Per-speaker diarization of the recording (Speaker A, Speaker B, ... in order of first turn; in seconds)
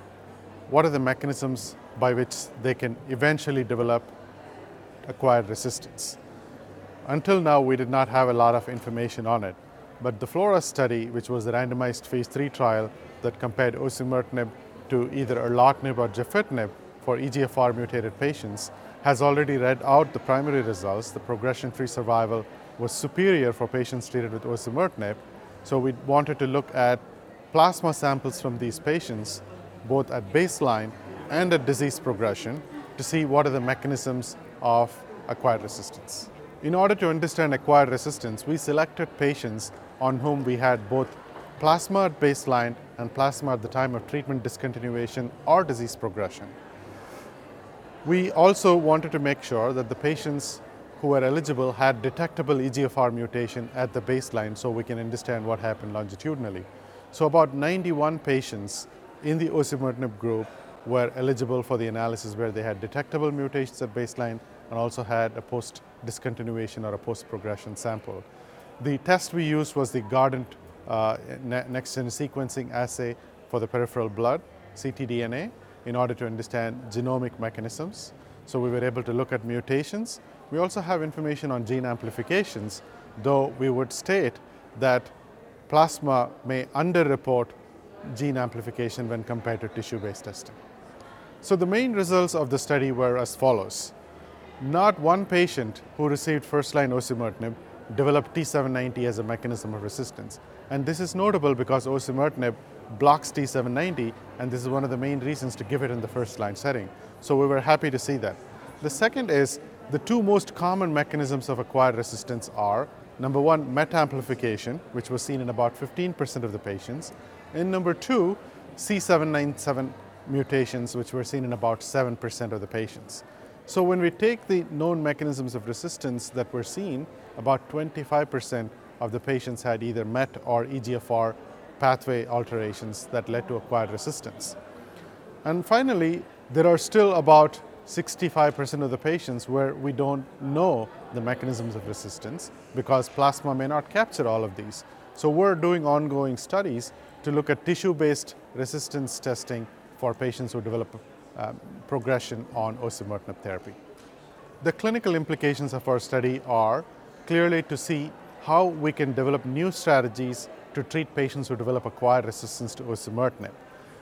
Speaker A: 0.7-4.1, 5.0-6.2, 7.0-46.5, 48.0-68.3, 68.8-85.1, 85.7-87.5, 88.1-90.6, 91.4-93.9, 94.6-134.6, 135.4-153.8, 154.6-163.6